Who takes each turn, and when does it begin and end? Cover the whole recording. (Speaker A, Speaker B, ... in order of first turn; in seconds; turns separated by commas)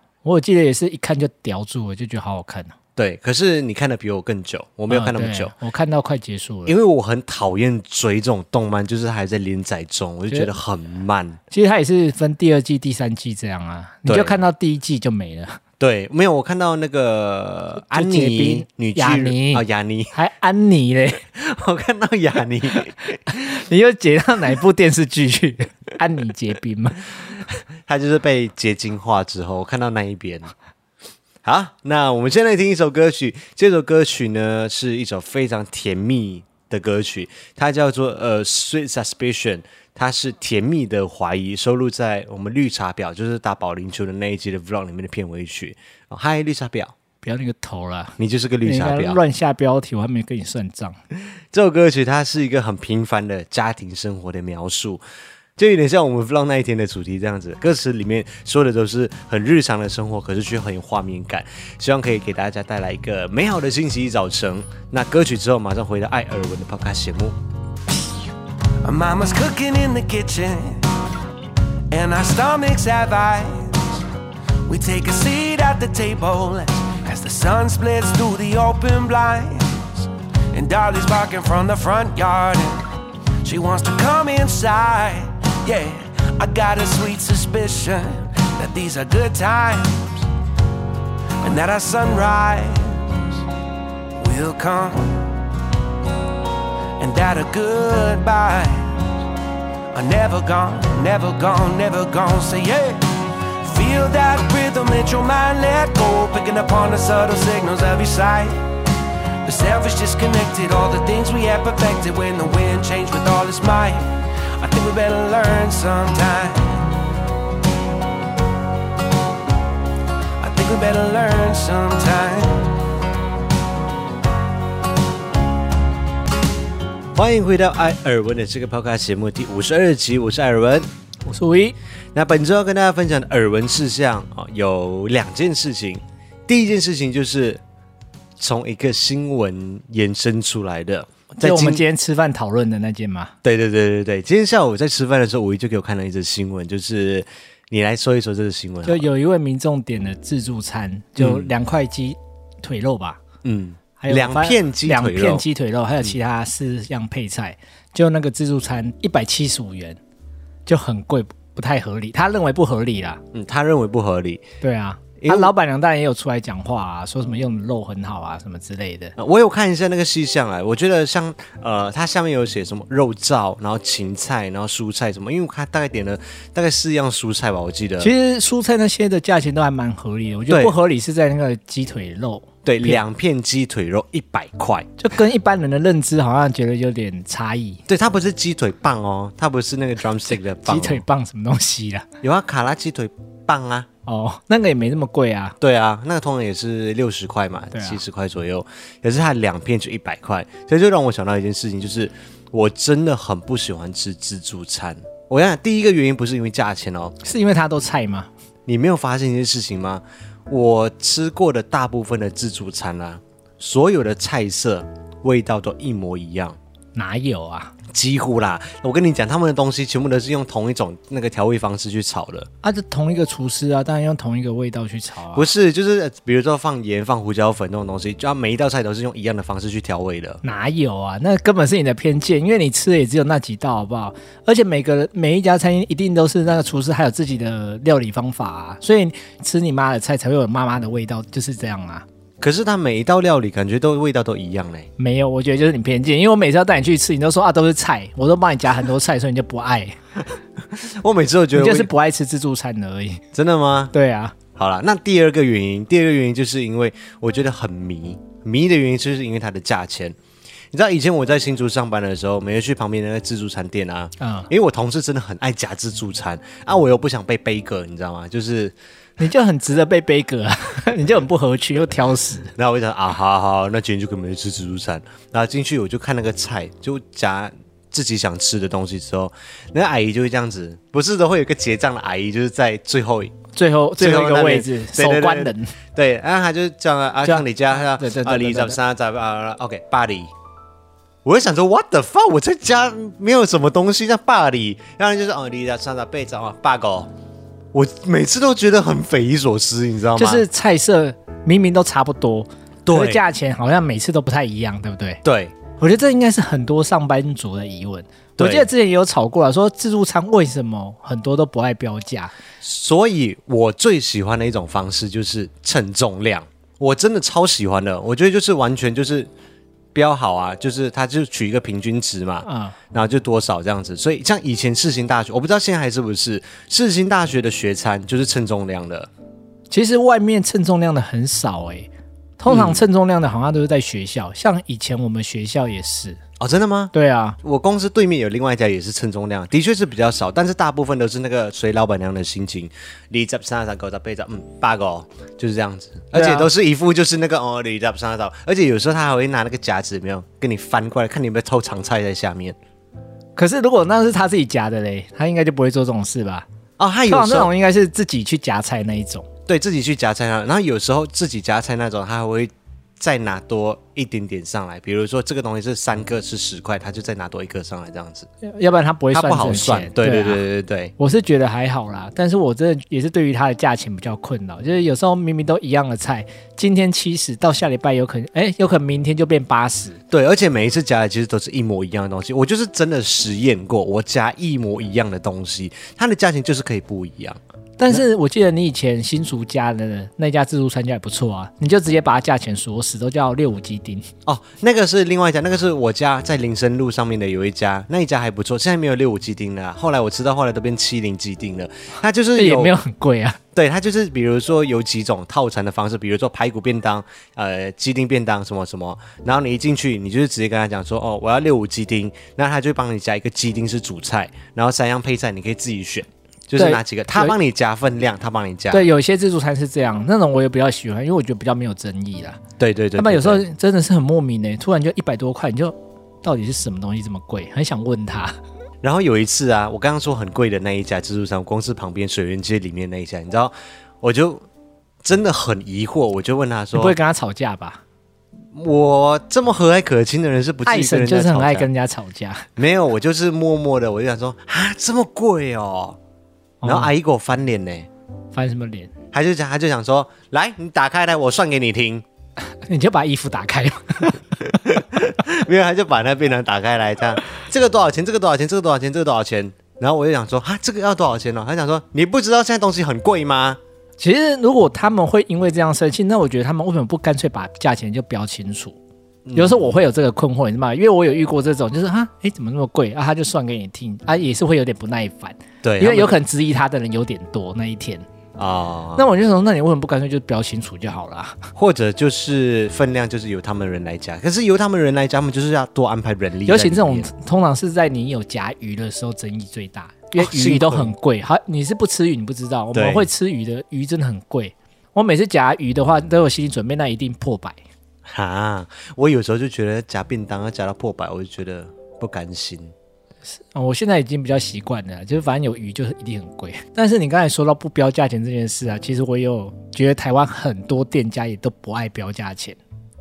Speaker A: 0.2-2.7, Speaker B: 3.0-5.5, Speaker A: 4.9-6.7, Speaker B: 6.7-11.4, Speaker A: 11.5-15.6, Speaker B: 14.1-14.4, Speaker B: 15.8-20.1, Speaker A: 17.9-21.2, Speaker B: 21.3-23.3, Speaker A: 23.3-27.1, Speaker B: 27.9-30.5, Speaker B: 31.4-46.9, Speaker A: 47.2-51.0, Speaker B: 48.2-49.2, Speaker B: 51.5-55.0, Speaker B: 55.6-67.4, Speaker C: 68.8-70.9, Speaker C: 71.9-74.0, Speaker C: 74.7-82.9, Speaker C: 83.4-90.3, Speaker C: 91.4-93.4, Speaker C: 94.2-95.3, Speaker C: 97.0-99.1, Speaker C: 99.9-108.6, Speaker C: 109.4-116.9, Speaker C: 120.4-122.7, Speaker B: 127.1-130.9, Speaker A: 131.2-131.8, Speaker B: 132.1-137.6, Speaker B: 138.4-141.8, Speaker A: 141.4-143.3, Speaker B: 143.4-149.1, Speaker A: 148.8-153.2, Speaker B: 151.2-151.5, Speaker B: 153.4-155.4, Speaker A: 154.0-160.0, Speaker A: 160.7-163.2, Speaker B: 163.3-164.4, Speaker A: 164.6-169.1, Speaker B: 165.2-165.5, Speaker B: 169.2-178.1, Speaker A: 178.0-183.0, Speaker B: 180.5-180.7, Speaker B: 182.6-184.9, Speaker A: 185.0-187.8, Speaker B: 187.9-191.0, Speaker A: 190.6-192.1, Speaker B: 192.2-193.9, Speaker A: 194.1-195.6, Speaker B: 195.6-207.1, Speaker A: 197.7-198.0, Speaker A: 207.2-208.3, Speaker B: 208.7-216.6, Speaker A: 216.9-217.7, Speaker B: 217.9-222.5, Speaker A: 222.6-225.5, Speaker B: 225.3-230.4, Speaker A: 230.4-242.0, Speaker B: 242.4-244.9, Speaker A: 245.0-250.0, Speaker B: 250.7-251.9, Speaker A: 251.5-253.2, Speaker B: 253.3-253.9, Speaker A: 253.9-254.4, Speaker B: 254.5-260.1, Speaker B: 260.7-268.7, Speaker A: 264.2-264.5, Speaker A: 269.2-272.5, Speaker B: 272.6-283.4, Speaker A: 283.5-285.7, Speaker B: 284.0-290.3, Speaker A: 287.2-288.8, Speaker B: 291.2-297.1, Speaker B: 297.7-300.4, Speaker A: 300.2-305.2, Speaker B: 302.9-303.2, Speaker B: 305.2-305.6, Speaker A: 305.8-312.3, Speaker B: 308.4-308.7, Speaker B: 312.6-319.3, Speaker B: 319.9-329.1, Speaker A: 322.4-322.8, Speaker A: 329.7-336.2, Speaker B: 332.5-332.9, Speaker B: 336.4-352.6, Speaker A: 336.9-337.4, Speaker A: 346.1-346.5, Speaker A: 353.4-356.4, Speaker B: 356.8-357.5, Speaker A: 357.1-359.3, Speaker B: 359.5-368.3, Speaker A: 368.4-370.4, Speaker B: 369.1-370.9, Speaker A: 371.0-380.0, Speaker B: 380.1-387.4, Speaker A: 387.8-394.1, Speaker B: 394.2-402.8, Speaker A: 402.4-403.4, Speaker B: 403.5-418.9, Speaker A: 416.6-417.3, Speaker A: 418.7-422.4, Speaker B: 422.6-423.4, Speaker A: 423.0-428.3, Speaker B: 428.8-434.4, Speaker B: 435.0-436.9, Speaker A: 436.7-437.8, Speaker B: 438.5-441.7, Speaker A: 440.6-442.5, Speaker B: 442.6-446.0, Speaker A: 446.6-446.9, Speaker B: 446.6-447.9, Speaker A: 448.3-448.9, Speaker B: 449.1-452.0, Speaker A: 452.7-454.2, Speaker B: 454.4-463.6, Speaker A: 464.0-468.8, Speaker B: 469.2-469.8, Speaker A: 469.3-478.0, Speaker B: 475.6-476.2, Speaker B: 478.4-479.1, Speaker A: 478.9-481.4, Speaker B: 481.6-487.1, Speaker A: 486.4-497.6, Speaker B: 490.2-490.9, Speaker B: 492.7-493.1, Speaker B: 498.1-502.7, Speaker A: 503.3-512.6